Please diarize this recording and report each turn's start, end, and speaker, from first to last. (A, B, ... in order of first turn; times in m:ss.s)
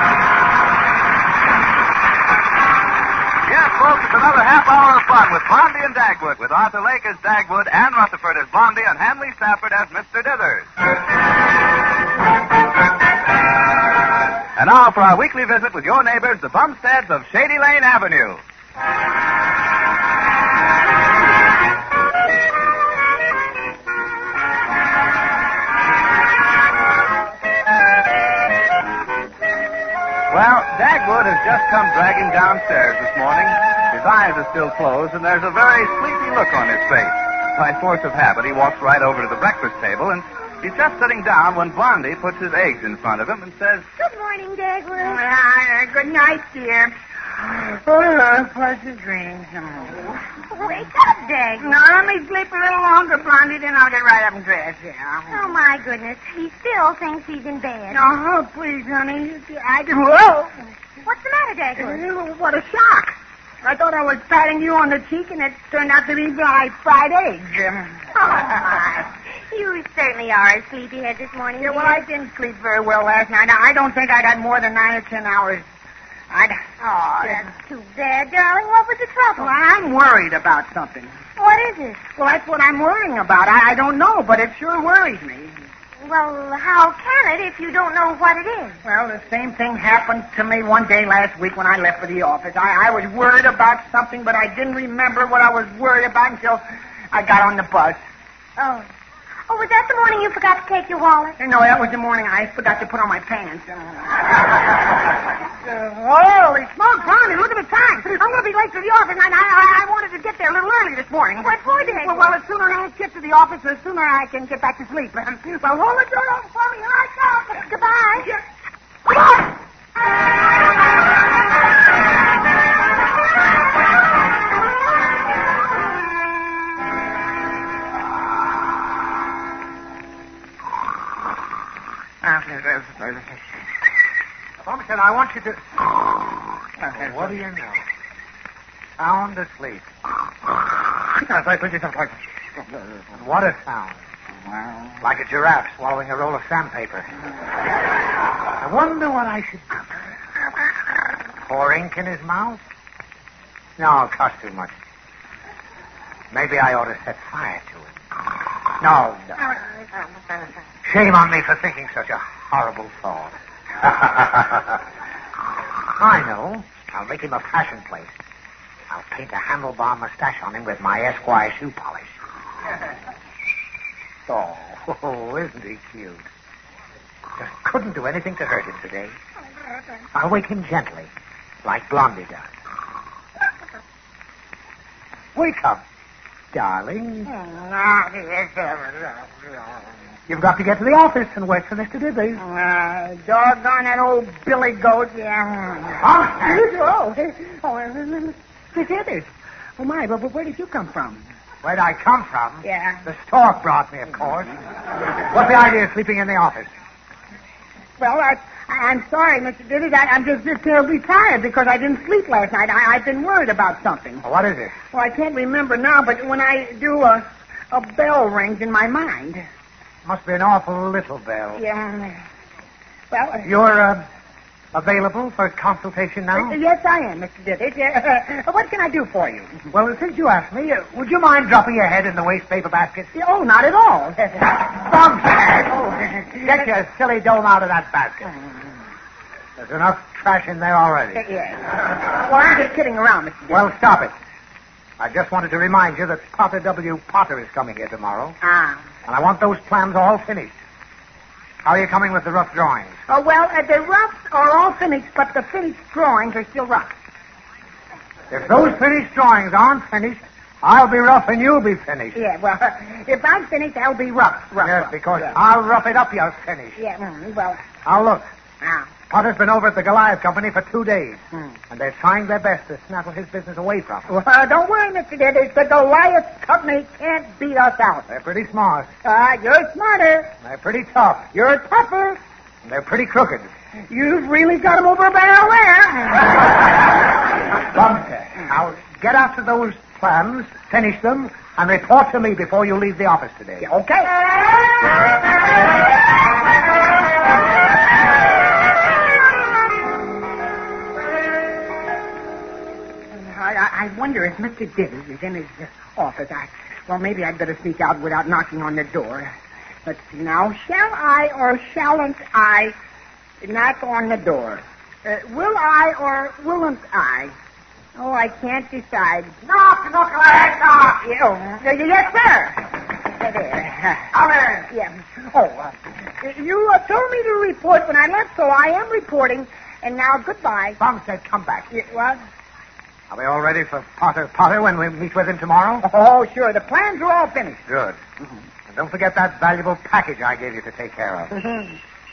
0:03.4-0:10.7 A
0:14.6-0:18.4 A
0:30.3-0:43.8 A
0:44.0-0:45.2 B
0:45.0-0:50.0 C
0:50.5-0:51.7 B
0:51.6-0:55.3 C
0:55.3-0:58.0 B
0:57.9-1:00.5 C
1:01.0-1:02.0 B
1:01.8-1:08.0 C
1:08.1-1:12.0 B
1:11.6-1:15.6 C
1:16.3-1:16.7 C
1:16.8-1:19.5 B
1:19.4-1:21.1 C
1:21.4-1:22.0 B
1:22.1-1:25.5 C
1:26.0-1:28.8 B
1:28.8-1:38.0 C
1:38.6-1:38.9 B
1:39.5-1:41.4 B
1:41.4-1:44.4 C
1:45.6-1:58.4 C
1:51.4-1:52.3 B
1:57.5-1:58.3 B
2:12.2-2:13.2 C
2:14.6-2:15.8 D
2:16.9-2:17.8 D
2:19.0-2:19.9 D
2:21.3-2:21.9 D
2:23.1-2:24.0 D
2:25.0-2:27.1 D
2:28.6-2:29.8 D
2:31.4-2:32.6 D
2:33.8-2:34.7 D
2:36.3-2:37.9 D
2:38.8-2:39.4 D
2:40.8-2:44.8 D
2:46.0-2:48.1 D
2:48.9-2:52.1 D
2:54.3-2:56.2 D
2:57.4-2:59.1 D
3:00.1-3:01.1 D
3:01.6-3:02.5 D
3:05.3-3:05.8 D
3:06.5-3:07.3 D
3:07.2-3:09.3 C
3:10.3-3:12.4 D
3:12.4-3:21.2 C
3:16.0-3:16.6 D
3:21.6-3:24.5 D
3:22.6-3:23.0 C
3:25.2-3:26.7 D
3:28.0-3:34.2 C
3:34.2-3:34.8 D
3:34.9-3:39.4 C
3:40.0-3:41.6 D
3:41.5-3:42.2 C
3:43.1-3:43.5 C
3:43.4-3:44.0 D
3:44.7-3:46.6 D
3:46.3-3:49.6 C
3:49.7-3:53.1 D
3:53.1-3:54.5 C
3:54.6-3:55.8 D
3:55.7-3:56.4 C
3:56.4-3:58.3 D
3:59.6-4:01.2 D
4:01.1-4:03.6 C
4:03.5-4:04.1 D
4:05.0-4:08.4 D
4:08.4-4:08.8 C
4:09.1-4:10.5 D
4:11.6-4:13.0 D
4:13.1-4:16.9 C
4:18.3-4:22.2 D
4:22.1-4:25.3 C
4:24.6-4:26.8 D
4:26.8-4:27.6 C
4:27.8-4:28.2 D
4:28.6-4:28.9 C
4:29.1-4:34.1 D
4:34.1-4:38.1 C
4:38.1-4:38.9 D
4:39.0-4:40.3 C
4:40.4-4:41.3 D
4:41.3-4:42.2 C
4:42.6-4:43.5 D
4:43.9-4:46.4 C
4:47.6-4:53.6 D
4:53.6-4:54.1 C
5:03.1-5:09.3 C
5:09.8-5:12.7 C
5:13.4-5:17.3 C
5:18.0-5:19.3 C
5:19.4-5:21.0 D
5:21.0-5:30.8 C
5:24.1-5:24.6 D
5:30.8-5:31.7 D
5:31.7-5:32.2 C
5:33.1-5:35.8 D
5:35.8-5:37.6 C
5:37.7-5:38.0 D
5:38.7-5:41.3 D
5:41.3-5:41.7 C